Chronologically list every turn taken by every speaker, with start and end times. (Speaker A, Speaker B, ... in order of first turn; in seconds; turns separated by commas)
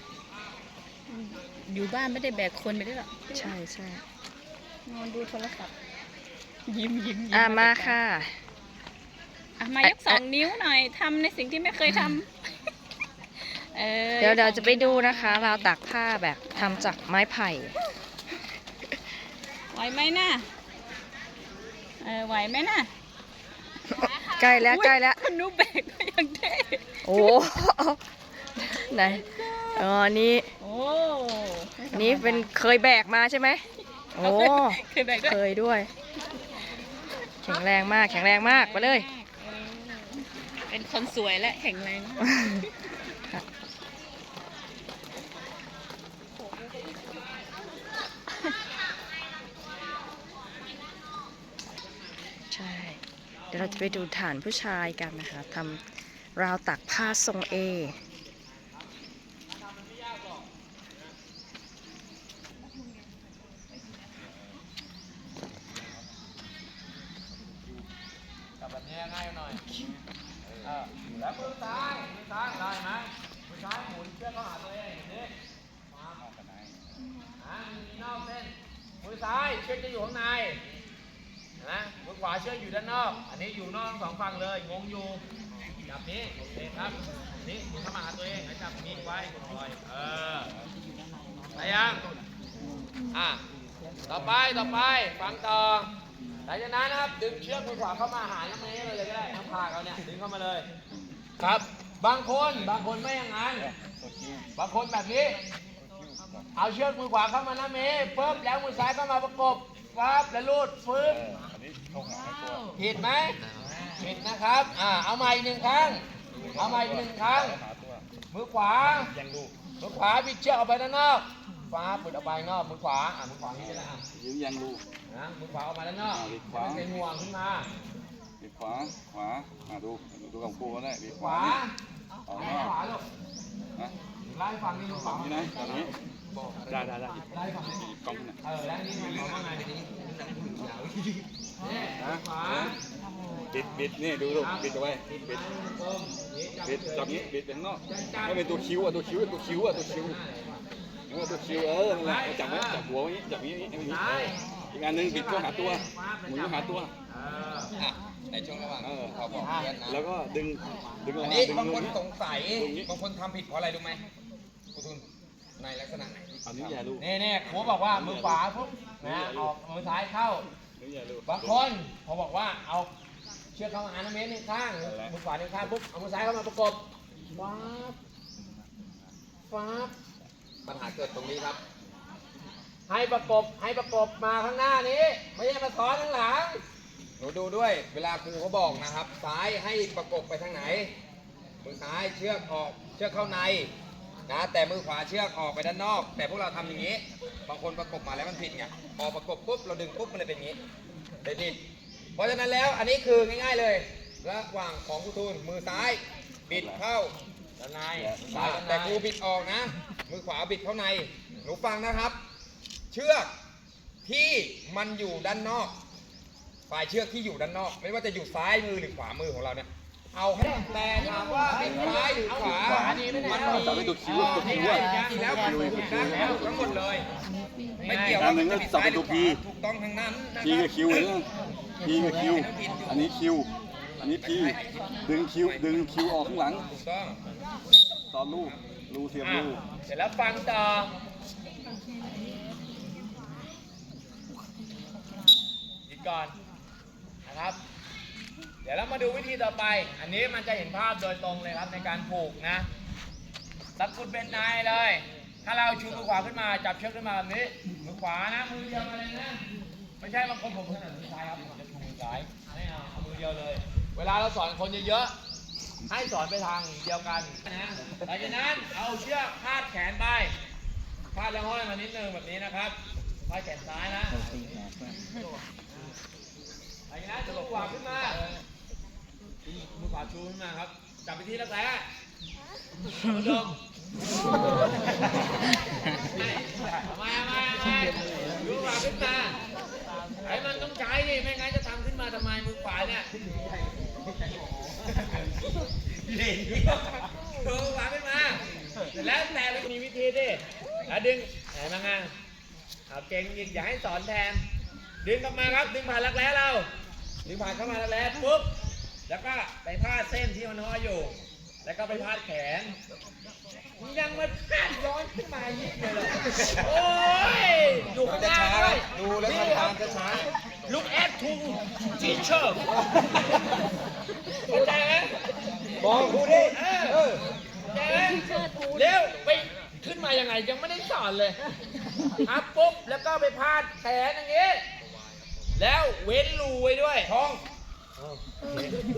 Speaker A: 1.1-3.4, Speaker B: 3.3-4.0, Speaker A: 4.8-5.7, Speaker A: 6.7-7.9, Speaker B: 7.3-8.4, Speaker A: 9.6-12.3, Speaker B: 9.8-10.2, Speaker A: 13.4-15.7, Speaker B: 14.2-17.7, Speaker A: 19.7-20.5, Speaker A: 22.0-22.9, Speaker B: 23.9-25.2, Speaker A: 24.6-27.3, Speaker B: 27.0-28.0, Speaker B: 28.7-30.5, Speaker A: 29.1-29.8, Speaker A: 30.6-32.5, Speaker B: 31.9-33.6, Speaker B: 34.1-35.9, Speaker A: 34.2-35.4, Speaker B: 37.4-39.1, Speaker A: 37.5-42.7, Speaker B: 52.5-53.0, Speaker C: 53.5-54.0, Speaker B: 53.5-55.8, Speaker B: 56.3-58.0, Speaker C: 59.5-60.5, Speaker C: 68.6-69.6, Speaker D: 70.4-70.7, Speaker C: 70.6-75.3, Speaker C: 75.9-76.2, Speaker D: 76.2-76.8, Speaker C: 77.4-80.6, Speaker C: 81.6-85.2, Speaker C: 85.9-90.5, Speaker C: 91.5-92.0, Speaker C: 93.1-93.4, Speaker C: 94.1-95.9, Speaker C: 96.4-100.7, Speaker C: 101.4-103.7, Speaker D: 103.6-104.5, Speaker C: 104.5-105.4, Speaker D: 105.8-106.4, Speaker C: 106.5-111.2, Speaker D: 111.0-112.7, Speaker C: 112.8-113.4, Speaker C: 114.0-116.0, Speaker D: 116.3-118.0, Speaker C: 116.5-117.6, Speaker C: 118.3-119.1, Speaker D: 118.9-119.5, Speaker C: 119.8-124.0, Speaker D: 123.6-124.8, Speaker C: 125.1-127.7, Speaker D: 126.0-126.9, Speaker D: 128.4-131.6, Speaker C: 131.1-131.7, Speaker D: 132.3-132.8, Speaker C: 132.3-133.0, Speaker C: 134.2-135.9, Speaker D: 134.9-135.9, Speaker E: 136.3-136.8, Speaker D: 136.7-138.4, Speaker C: 137.3-137.8, Speaker C: 138.4-139.7, Speaker E: 138.9-141.2, Speaker C: 141.6-142.7, Speaker D: 142.0-142.7, Speaker D: 143.5-145.4, Speaker C: 144.3-147.3, Speaker D: 146.6-150.2, Speaker C: 147.9-148.7, Speaker C: 149.4-150.6, Speaker D: 151.1-156.9, Speaker C: 151.8-152.8, Speaker C: 153.8-154.3, Speaker C: 154.9-157.7, Speaker E: 157.8-160.1, Speaker D: 158.8-162.9, Speaker C: 159.4-159.7, Speaker E: 161.1-164.0, Speaker E: 164.7-165.1, Speaker E: 165.6-166.8, Speaker D: 166.4-168.4, Speaker C: 167.0-170.5, Speaker D: 169.0-169.5, Speaker D: 170.8-171.6, Speaker C: 171.2-172.9, Speaker C: 173.5-178.0, Speaker D: 174.8-175.1, Speaker C: 179.5-179.9, Speaker E: 180.6-181.6, Speaker C: 182.9-186.6, Speaker E: 187.2-190.9, Speaker E: 191.6-193.7, Speaker E: 194.3-200.6, Speaker E: 201.2-201.6, Speaker E: 202.2-207.2, Speaker D: 206.5-206.8, Speaker C: 207.6-209.0, Speaker D: 207.9-208.6, Speaker E: 208.2-212.2, Speaker E: 212.9-213.3, Speaker E: 214.0-215.8, Speaker E: 216.7-227.1, Speaker C: 220.8-226.4, Speaker D: 221.5-226.9, Speaker C: 227.8-228.3, Speaker E: 227.8-231.1, Speaker D: 227.9-229.4, Speaker D: 230.4-231.3, Speaker D: 231.8-233.5, Speaker E: 231.8-233.1, Speaker D: 234.0-236.7, Speaker E: 234.1-234.6, Speaker E: 235.2-235.8, Speaker E: 236.6-237.2, Speaker D: 238.1-239.6, Speaker C: 239.2-240.9, Speaker C: 245.9-246.3, Speaker C: 247.2-247.6, Speaker C: 248.6-252.7, Speaker C: 253.8-259.4, Speaker C: 260.0-265.1, Speaker C: 265.9-270.3, Speaker C: 271.1-274.3, Speaker C: 276.9-278.2, Speaker C: 279.7-281.8, Speaker C: 283.1-283.6, Speaker C: 286.1-289.4, Speaker C: 290.2-293.1, Speaker C: 296.0-298.4, Speaker C: 298.9-302.1, Speaker C: 302.9-304.4, Speaker C: 305.0-306.7, Speaker C: 307.2-308.5, Speaker C: 309.1-312.8, Speaker C: 313.8-319.8, Speaker E: 318.0-320.3, Speaker C: 320.6-322.6, Speaker E: 322.7-323.0, Speaker C: 324.5-325.1, Speaker E: 325.8-327.2, Speaker C: 325.9-327.0, Speaker C: 327.7-331.4, Speaker A: 328.0-328.9, Speaker C: 332.2-334.6, Speaker C: 335.6-337.1, Speaker E: 337.0-337.4, Speaker C: 338.0-338.8